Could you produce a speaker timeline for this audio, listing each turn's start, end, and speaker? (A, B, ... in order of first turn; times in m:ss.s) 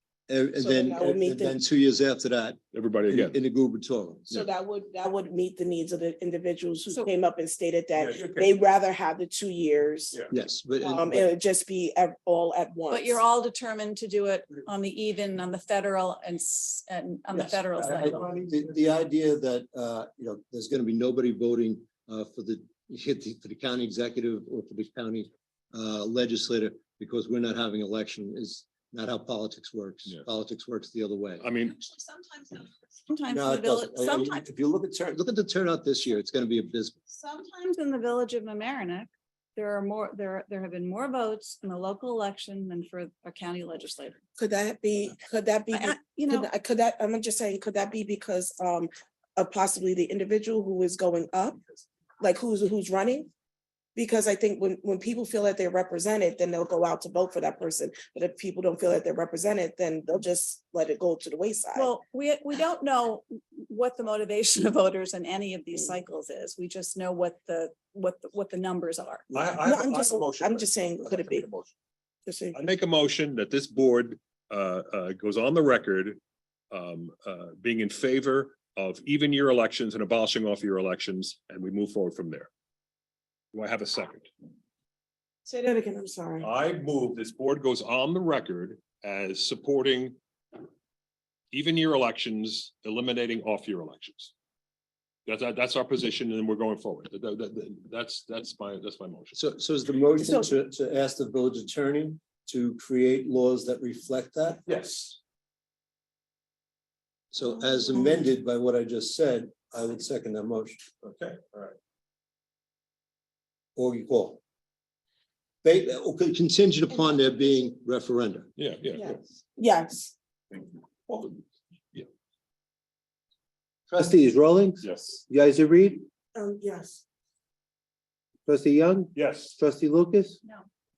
0:00.3-0:04.5 A
0:00.6-0:01.6 B
0:02.7-0:03.4 C
0:04.3-0:10.2 B
0:08.0-0:08.5 C
0:10.3-0:11.3 A
0:10.8-0:13.2 B
0:12.9-0:18.2 D
0:17.3-0:31.4 A
0:31.4-0:31.8 C
0:31.8-0:34.4 D
0:33.3-0:37.0 A
0:37.1-0:44.2 D
0:44.4-0:51.6 B
0:45.7-0:46.5 D
0:52.2-0:53.3 B
0:54.0-1:01.9 B
1:01.7-1:09.2 D
1:09.3-1:11.7 C
1:09.6-1:11.5 B
1:12.3-1:12.6 B
1:12.5-1:16.2 C
1:16.7-1:22.5 C
1:23.5-1:24.3 C
1:25.5-1:26.5 B
1:26.4-1:30.2 C
1:31.5-1:34.3 C
1:35.3-1:39.4 C
1:39.3-1:44.6 A
1:40.2-1:40.5 B
1:44.7-1:45.2 C
1:47.3-1:50.9 A
1:51.0-1:51.8 C
1:53.8-1:54.4 A
1:55.6-1:58.5 A
1:58.6-1:59.2 C
1:59.0-2:00.1 B
2:01.1-2:01.4 C
2:03.9-2:06.1 A
2:04.8-2:05.2 C
2:06.4-2:07.0 B
2:08.5-2:10.4 A
2:09.1-2:09.6 C